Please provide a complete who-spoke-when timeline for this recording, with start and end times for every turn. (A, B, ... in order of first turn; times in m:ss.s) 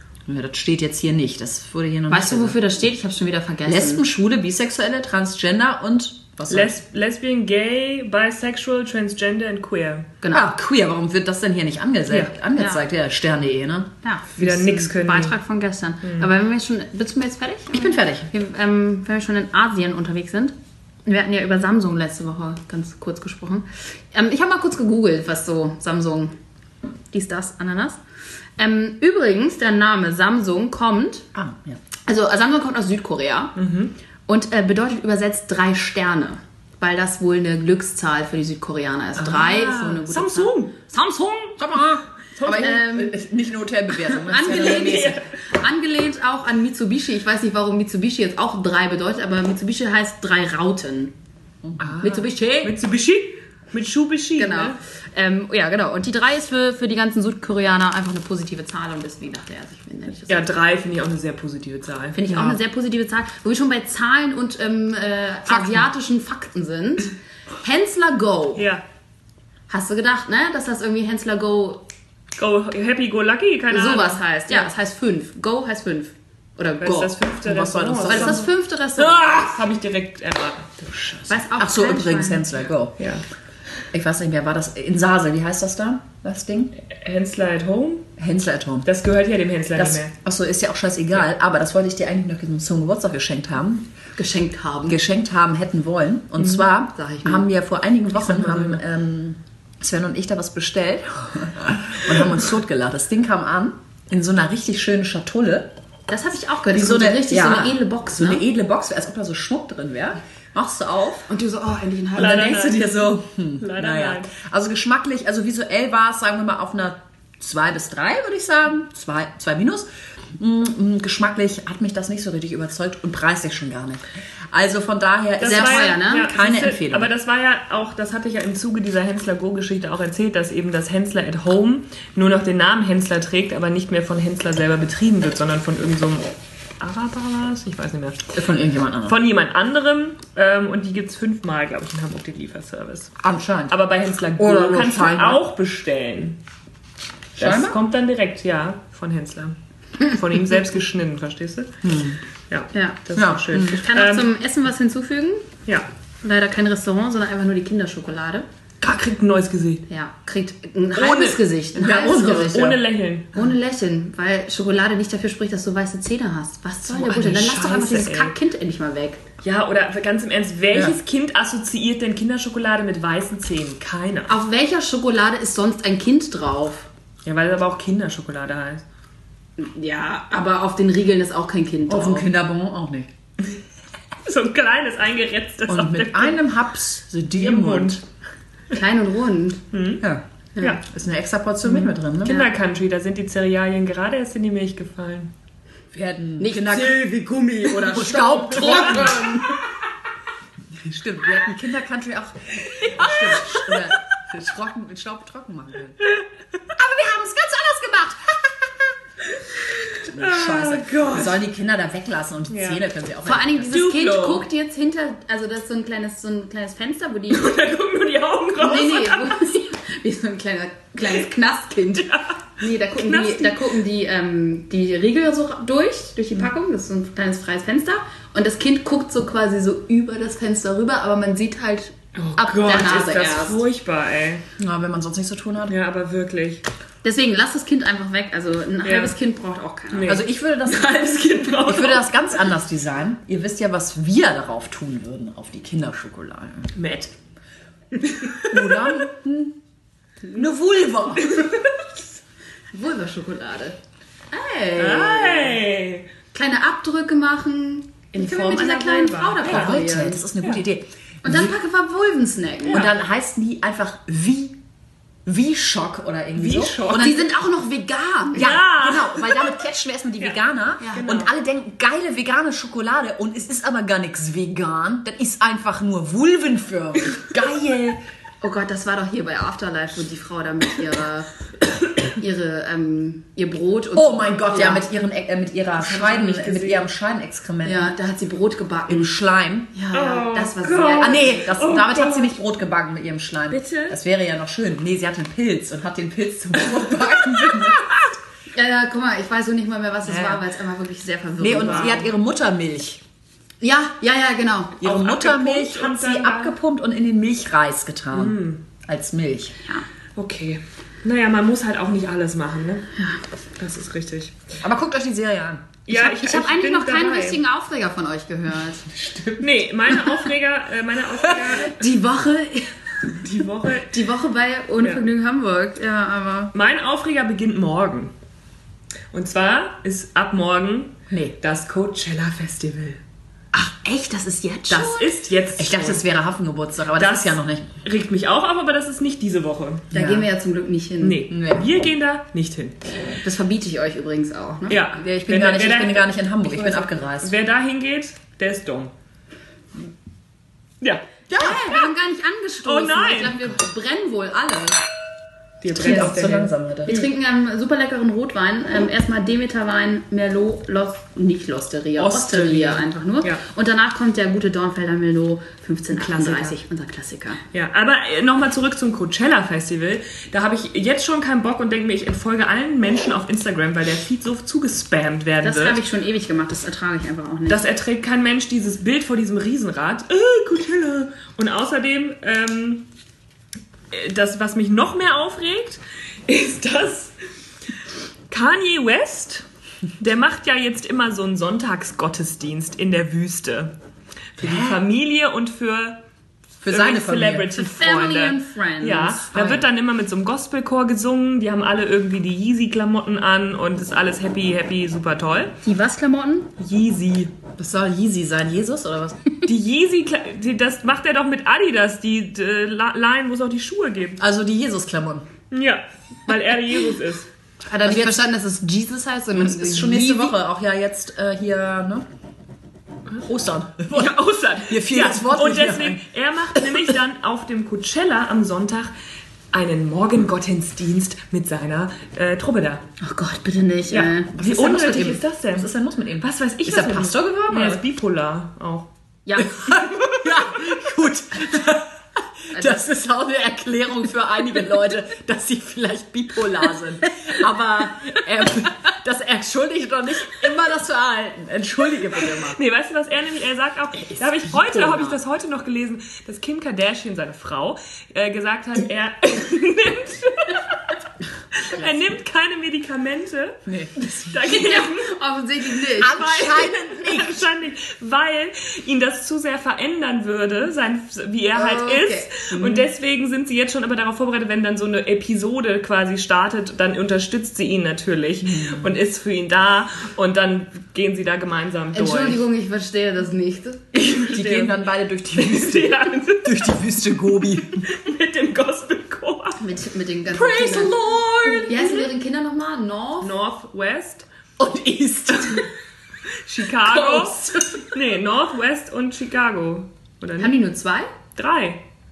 0:00.2-0:02.6 A
0:02.1-0:04.0 B
0:03.7-0:06.8 A
0:06.5-0:10.1 C
0:10.2-0:10.5 B
0:10.3-0:13.9 A
0:12.6-0:12.8 B
0:14.0-0:20.6 B
0:14.4-0:15.4 C
0:17.7-0:18.3 A
0:21.1-0:26.3 B
0:27.1-0:28.0 B
0:28.6-0:31.3 B
0:31.4-0:31.8 A
0:32.1-0:33.5 B
0:33.6-0:33.9 C
0:34.3-0:41.6 B
0:39.2-0:40.9 C
0:41.6-0:45.2 A
0:42.4-0:42.7 C
0:42.5-0:43.2 B
0:44.0-0:51.1 B
0:44.5-0:45.2 C
0:51.6-0:52.0 A
0:51.8-0:54.8 C
0:52.0-0:52.8 B
0:54.4-1:00.5 B
1:00.3-1:02.5 C
1:02.2-1:08.6 B
1:05.5-1:05.9 A
1:08.6-1:08.8 C
1:09.7-1:11.8 B
1:12.4-1:14.2 C
1:13.7-1:17.1 B
1:16.8-1:21.4 C
1:16.9-1:18.4 A
1:18.0-1:19.6 B
1:21.3-1:22.5 B
1:21.6-1:23.0 A
1:23.9-1:26.7 A
1:26.9-1:28.1 C
1:28.2-1:28.9 A
1:28.8-1:30.1 C
1:29.8-1:33.9 A
1:34.2-1:35.0 B
1:34.9-1:45.7 A
1:36.9-1:37.5 B
1:38.1-1:38.8 C
1:46.1-1:48.4 B
1:46.7-1:51.3 A
1:51.3-1:52.8 B
1:52.2-1:54.3 C
1:52.2-2:07.1 A
2:05.4-2:18.3 C
2:05.4-2:06.3 B
2:18.3-2:19.2 A
2:19.1-2:23.1 C
2:23.2-2:23.8 A
2:23.7-2:26.4 C
2:24.4-2:25.4 A
2:27.4-2:27.8 A
2:27.4-2:31.8 C
2:31.8-2:32.2 A
2:32.5-2:34.3 C
2:32.7-2:33.0 B
2:33.2-2:33.9 A
2:33.8-2:35.5 B
2:36.2-2:38.5 B
2:38.8-2:39.8 C
2:39.9-2:42.8 B
2:41.0-2:43.4 C
2:41.8-2:42.8 A
2:43.3-2:49.2 B
2:46.9-2:48.4 C
2:49.4-2:54.3 C
2:50.7-2:51.0 A
2:54.3-2:56.9 B
2:57.2-2:58.8 C
2:59.6-3:02.3 B
3:01.9-3:03.1 A
3:04.2-3:06.4 C
3:05.7-3:08.0 A
3:07.4-3:08.0 C
3:08.7-3:09.6 B
3:09.7-3:10.0 C
3:10.8-3:12.4 A
3:11.7-3:15.3 C
3:15.9-3:17.1 A
3:16.4-3:19.6 B
3:17.6-3:19.5 A
3:18.6-3:19.1 C
3:20.7-3:26.0 A
3:22.9-3:23.8 C
3:26.7-3:28.9 A
3:29.7-3:31.4 C
3:30.0-3:33.8 A
3:32.5-3:32.8 C
3:33.2-3:37.5 B
3:33.7-3:34.4 C
3:37.3-3:39.4 C
3:38.6-3:53.6 B
3:42.0-3:42.4 C
3:42.9-3:43.8 C
3:52.2-3:54.4 C
3:54.6-3:55.8 A
3:55.7-3:56.6 C
3:57.0-4:00.2 B
3:58.8-3:59.2 C
3:59.9-4:02.2 C
4:00.0-4:06.7 A
4:06.8-4:07.1 C
4:08.0-4:09.0 C
4:08.5-4:09.6 A
4:10.3-4:11.5 A
4:11.2-4:11.9 C
4:12.7-4:13.8 B
4:14.3-4:15.6 B
4:14.8-4:16.1 C
4:16.3-4:20.2 B
4:18.1-4:19.8 C
4:19.4-4:21.5 A
4:21.2-4:22.9 B
4:22.7-4:24.6 A
4:25.2-4:27.3 A
4:26.4-4:27.2 C
4:26.9-4:28.5 B
4:28.3-4:29.5 C
4:28.4-4:38.0 A
4:30.9-4:31.3 C
4:38.4-4:41.3 B
4:42.0-4:44.8 B
4:44.0-4:47.9 A
4:45.8-4:46.8 C
4:47.6-4:49.1 B
4:48.9-4:49.7 A
4:49.7-4:51.6 B
4:49.9-4:52.3 C
4:51.0-4:58.0 A
4:53.5-4:54.0 C
4:58.5-5:02.1 B
5:00.1-5:00.4 A
5:01.4-5:03.0 A
5:01.6-5:02.0 C
5:03.6-5:05.0 B
5:04.8-5:09.6 A
5:04.8-5:06.6 C
5:08.1-5:08.6 C
5:10.2-5:12.9 C
5:13.6-5:14.4 C
5:14.6-5:15.8 A
5:15.9-5:17.4 C
5:15.9-5:18.9 B
5:18.9-5:19.5 A
5:19.4-5:21.8 C
5:21.6-5:23.1 B
5:23.1-5:24.1 C
5:23.9-5:26.5 B
5:26.5-5:28.1 C
5:29.1-5:33.0 C
5:31.1-5:31.4 A
5:33.5-5:35.1 B
5:34.7-5:36.0 C
5:35.6-5:37.7 A
5:37.0-5:39.9 C
5:39.9-5:40.3 A
5:39.9-5:41.2 B
5:41.0-5:42.8 C
5:41.3-5:41.7 A
5:43.2-5:44.8 B
5:44.7-5:46.1 C
5:45.0-5:47.3 A
5:46.6-5:48.9 C
5:51.3-5:51.8 A
5:51.3-5:54.8 B
5:52.6-5:53.5 C
5:55.6-5:56.9 C
5:55.7-5:57.1 A
5:55.8-6:07.4 B
6:02.0-6:02.8 A
6:02.6-6:03.4 C
6:05.9-6:06.6 C
6:07.5-6:15.8 C
6:15.4-6:17.7 B
6:17.5-6:22.9 C
6:23.9-6:27.1 C
6:28.3-6:29.5 C
6:30.0-6:33.7 C
6:34.4-6:34.8 A
6:34.4-6:36.0 C
6:36.6-6:37.6 A
6:36.7-6:45.6 C
6:37.6-6:39.3 B
6:39.3-6:39.6 A
6:45.6-6:46.5 B
6:46.6-6:47.4 C
6:47.6-6:49.4 A
6:49.4-6:54.2 C
6:54.2-6:55.2 A
6:55.5-6:57.3 C
6:57.7-7:00.4 B
6:57.8-6:58.2 A
6:59.3-7:02.0 A
7:03.2-7:06.0 A
7:03.9-7:08.9 C
7:06.5-7:06.9 A
7:09.5-7:12.8 C
7:13.0-7:14.3 B
7:13.9-7:18.9 C
7:14.3-7:17.8 A
7:19.2-7:19.8 B
7:19.4-7:22.0 A
7:22.5-7:32.6 A
7:22.5-7:22.8 B
7:32.2-7:40.9 C
7:34.1-7:35.2 A
7:41.5-7:45.1 C
7:43.6-7:44.1 A
7:44.2-7:46.6 B
7:46.0-7:47.5 A
7:46.0-8:02.4 C
7:51.6-7:52.3 B
7:52.5-7:52.9 A
7:58.4-7:59.0 A
8:01.9-8:03.8 B
8:03.9-8:07.9 A
8:04.0-8:09.6 C
8:09.6-8:11.0 B
8:10.3-8:12.0 A
8:10.6-8:11.8 C
8:11.5-8:13.3 B
8:13.2-8:14.3 C
8:14.6-8:15.7 A
8:16.3-8:20.6 C
8:16.8-8:17.9 A
8:20.4-8:21.1 B
8:21.4-8:21.8 C